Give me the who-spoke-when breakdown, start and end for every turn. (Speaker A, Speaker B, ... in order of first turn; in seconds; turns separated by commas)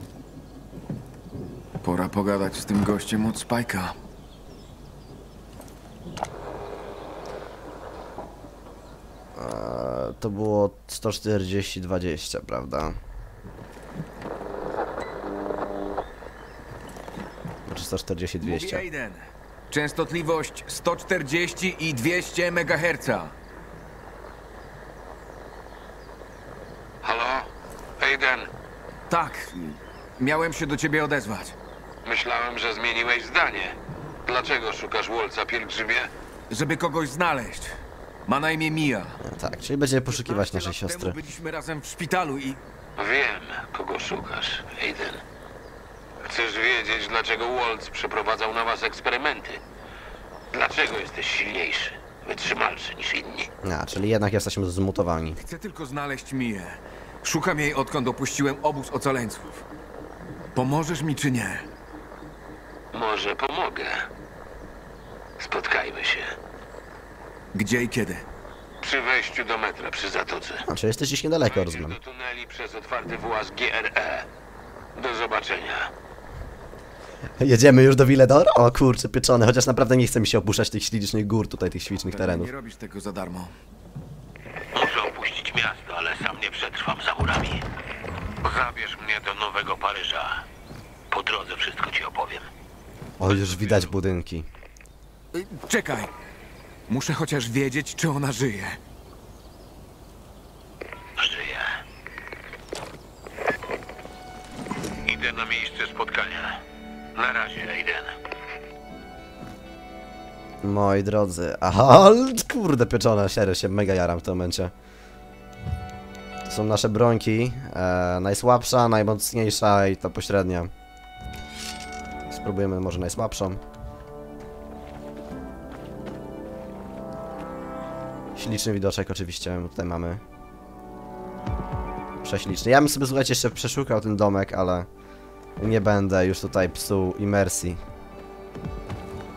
Speaker A: 1.8-4.0, Speaker B: 9.4-13.0, Speaker B: 17.7-18.9, Speaker A: 18.4-23.3, Speaker C: 27.0-28.5, Speaker A: 29.1-31.6, Speaker C: 32.0-36.1, Speaker A: 36.5-39.2, Speaker B: 39.2-41.2, Speaker A: 40.1-42.6, Speaker C: 43.0-45.2, Speaker C: 46.2-49.6, Speaker C: 50.5-53.5, Speaker B: 53.6-55.4, Speaker A: 55.4-59.6, Speaker A: 60.5-61.7, Speaker C: 62.9-64.1, Speaker C: 65.4-66.3, Speaker A: 67.5-68.2, Speaker C: 68.8-70.7, Speaker B: 70.7-72.0, Speaker C: 71.5-74.3, Speaker C: 75.0-75.9, Speaker B: 77.4-82.5, Speaker A: 82.1-83.6, Speaker C: 84.7-87.7, Speaker C: 88.4-90.4, Speaker C: 91.1-92.5, Speaker B: 93.2-94.5, Speaker A: 95.3-96.1, Speaker A: 96.9-98.8, Speaker C: 101.2-101.8, Speaker C: 105.0-106.6, Speaker C: 107.2-108.2, Speaker B: 110.6-114.7, Speaker B: 116.5-120.7, Speaker B: 122.3-123.6, Speaker B: 128.4-130.2, Speaker B: 132.2-134.9, Speaker B: 135.6-137.8